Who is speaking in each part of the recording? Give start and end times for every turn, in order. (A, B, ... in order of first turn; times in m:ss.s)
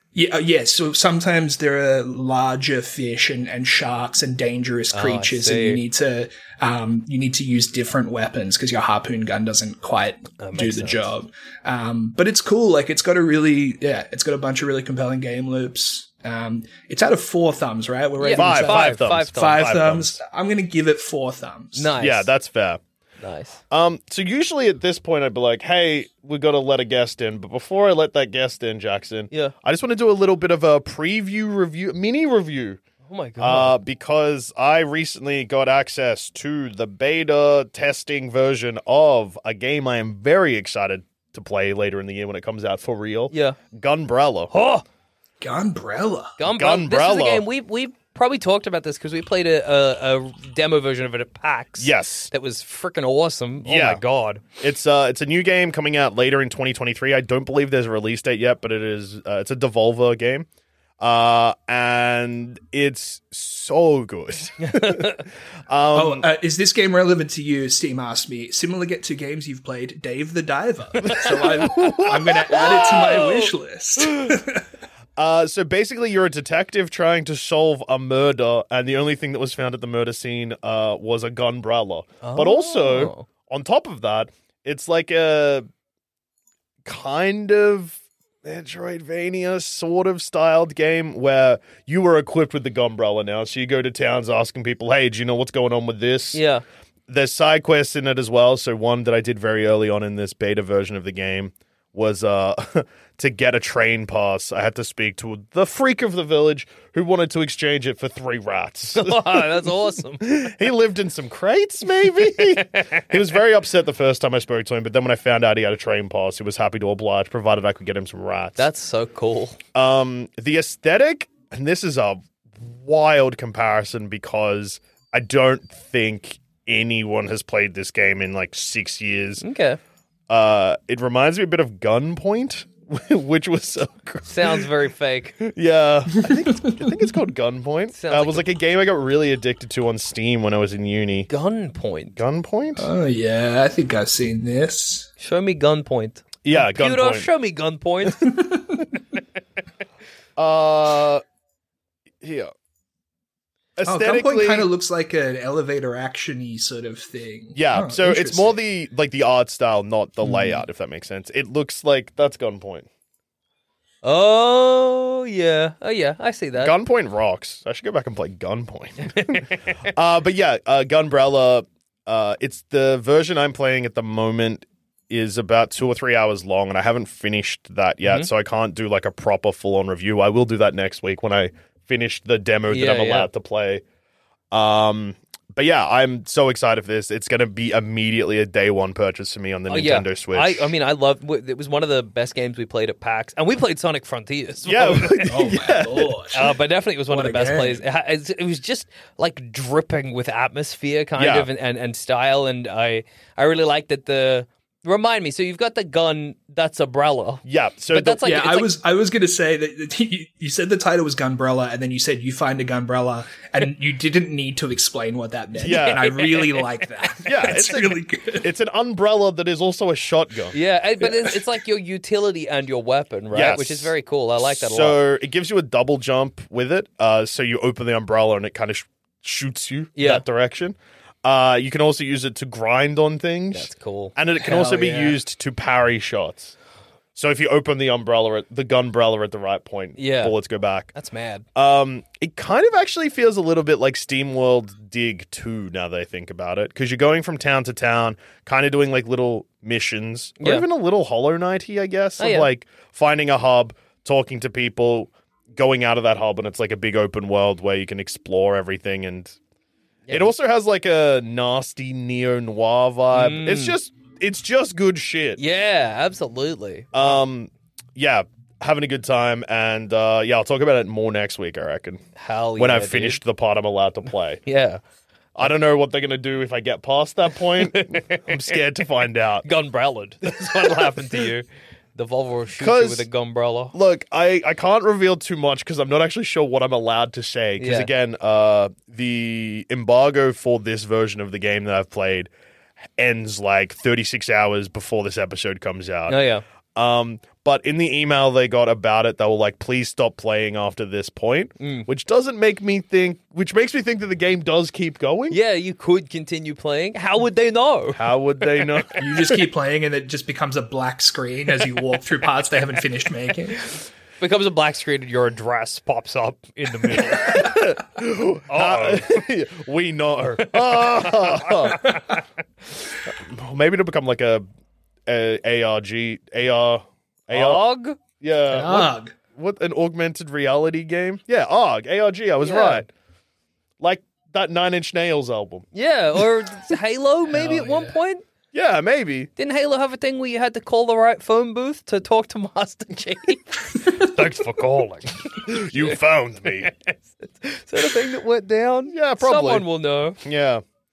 0:00.1-0:22.0 A
0:04.9-0:05.8 B
0:10.4-0:11.1 B
0:18.2-0:19.8 B
0:18.3-0:20.2 C
0:21.7-0:22.3 B
0:22.0-0:22.8 C
0:23.2-0:23.6 B
0:23.7-0:32.8 C
0:33.0-0:33.8 B
0:33.4-0:44.5 C
0:43.3-0:43.6 B
0:44.5-0:44.8 B
0:45.4-0:46.3 A
0:46.4-0:54.4 B
0:46.4-0:47.4 C
0:51.8-0:52.3 C
0:53.6-0:54.0 C
0:54.6-1:00.5 C
1:01.0-1:05.1 C
1:04.6-1:05.2 B
1:05.7-1:06.2 C
1:05.9-1:14.6 A
1:11.0-1:12.6 C
1:12.5-1:14.3 B
1:15.2-1:25.6 C
1:22.2-1:23.3 B
1:26.8-1:36.4 C
1:36.3-1:36.6 B
1:37.1-1:49.5 C
1:48.9-1:50.5 B
1:50.2-1:58.6 C
1:52.0-1:53.0 B
1:58.6-1:59.6 B
1:59.7-2:09.4 C
2:09.4-2:09.8 B
2:10.3-2:14.7 C
2:14.3-2:15.4 B
2:15.4-2:21.3 C
2:17.9-2:18.5 B
2:21.3-2:22.2 B
2:22.1-2:22.9 C
2:22.8-2:25.1 A
2:25.2-2:28.3 B
2:26.4-2:27.3 C
2:28.2-2:28.8 A
2:30.4-2:31.2 C
2:32.2-2:32.5 C
2:33.8-2:34.7 C
2:33.8-2:38.5 A
2:37.5-2:42.9 C
2:40.2-2:40.6 A
2:44.0-2:46.7 B
2:46.6-3:03.8 C
2:49.0-2:49.7 B
2:58.0-2:58.3 B
3:02.7-3:03.3 B
3:04.5-3:10.7 C
3:09.7-3:15.5 B
3:14.6-3:16.2 C
3:15.2-3:16.5 A
3:16.3-3:28.8 B
3:17.1-3:17.8 A
3:21.2-3:21.5 C
3:27.4-3:28.2 C
3:28.2-3:38.5 A
3:35.6-3:36.1 C
3:35.6-3:36.7 B
3:37.2-3:40.6 C
3:40.5-3:45.0 B
3:43.3-3:56.5 C
3:50.0-3:50.2 B
3:53.5-3:55.0 B
3:54.4-3:55.1 A
3:57.1-4:00.9 C
4:00.0-4:00.3 B
4:00.9-4:01.5 B
4:01.5-4:19.4 C
4:10.4-4:10.6 B
4:12.2-4:12.5 B
4:20.1-4:20.3 B
4:20.1-4:25.4 C
4:23.1-4:23.8 B
4:25.4-4:27.2 B
4:26.9-4:32.0 C
4:32.2-4:33.2 B
4:32.6-4:34.4 C
4:34.4-4:34.8 B
4:35.4-4:39.4 C
4:37.6-4:38.6 B
4:39.4-4:43.7 B
4:42.6-4:43.1 C
4:43.7-4:52.3 C
4:47.6-4:47.9 B
4:53.0-4:56.2 C
4:56.1-4:56.4 B
4:56.7-5:05.4 C
5:01.6-5:01.9 B
5:05.3-5:08.1 B
5:08.0-5:09.3 C
5:09.0-5:13.6 A
5:14.2-5:17.5 B
5:17.2-5:21.9 C
5:18.5-5:19.2 B
5:20.5-5:21.9 B
5:23.1-5:24.4 C
5:25.1-5:27.6 C
5:27.3-5:28.0 B
5:28.2-5:32.9 C
5:28.5-5:29.1 A
5:32.4-5:32.8 B
5:33.8-5:35.6 C
5:35.7-5:38.2 B
5:37.3-5:38.0 A
5:38.5-5:39.3 C
5:39.4-5:50.2 B
5:45.4-5:46.7 C
5:48.9-5:49.7 C
5:50.2-5:50.6 C